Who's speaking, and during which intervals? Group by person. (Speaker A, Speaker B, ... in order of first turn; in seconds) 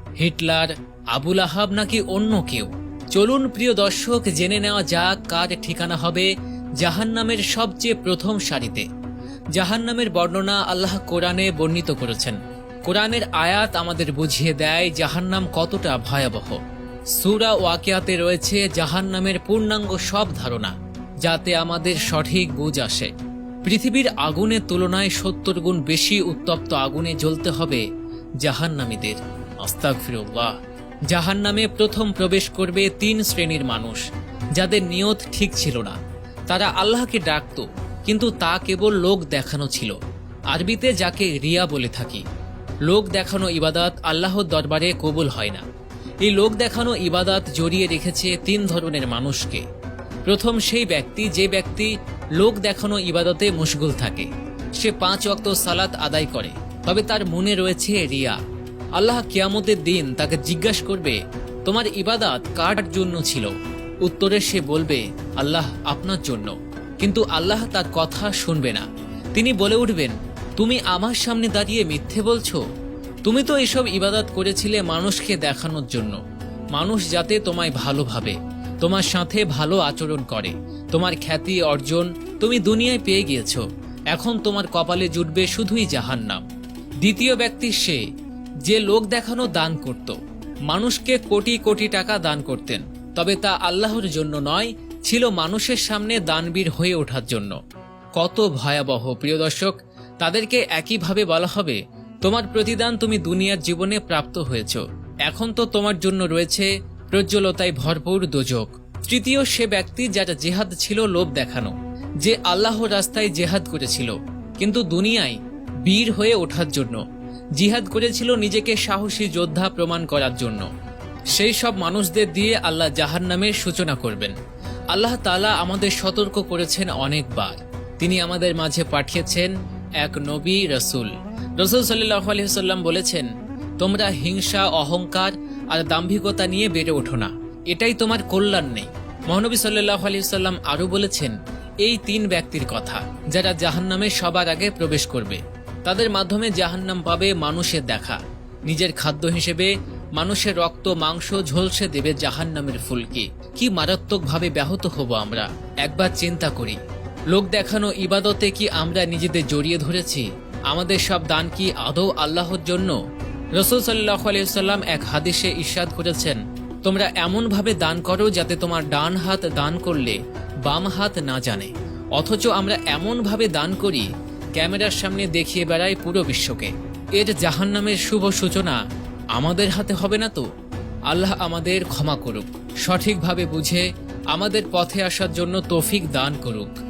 Speaker A: 0.2-8.9, 9.6-16.6, 17.2-23.1, 23.6-27.8, 28.4-30.6, 31.1-34.0, 34.5-36.0, 36.5-40.0, 40.5-42.2, 42.9-45.6, 46.2-49.6, 50.3-58.4, 59.0-63.5, 64.0-72.6, 73.2-76.2, 76.7-86.4, 87.0-88.0, 88.7-90.2, 90.7-97.6, 98.2-117.0, 117.6-120.7, 121.3-124.3, 124.9-129.5, 130.0-156.8, 157.3-163.0, 163.6-178.8, 179.3-180.4, 181.1-186.7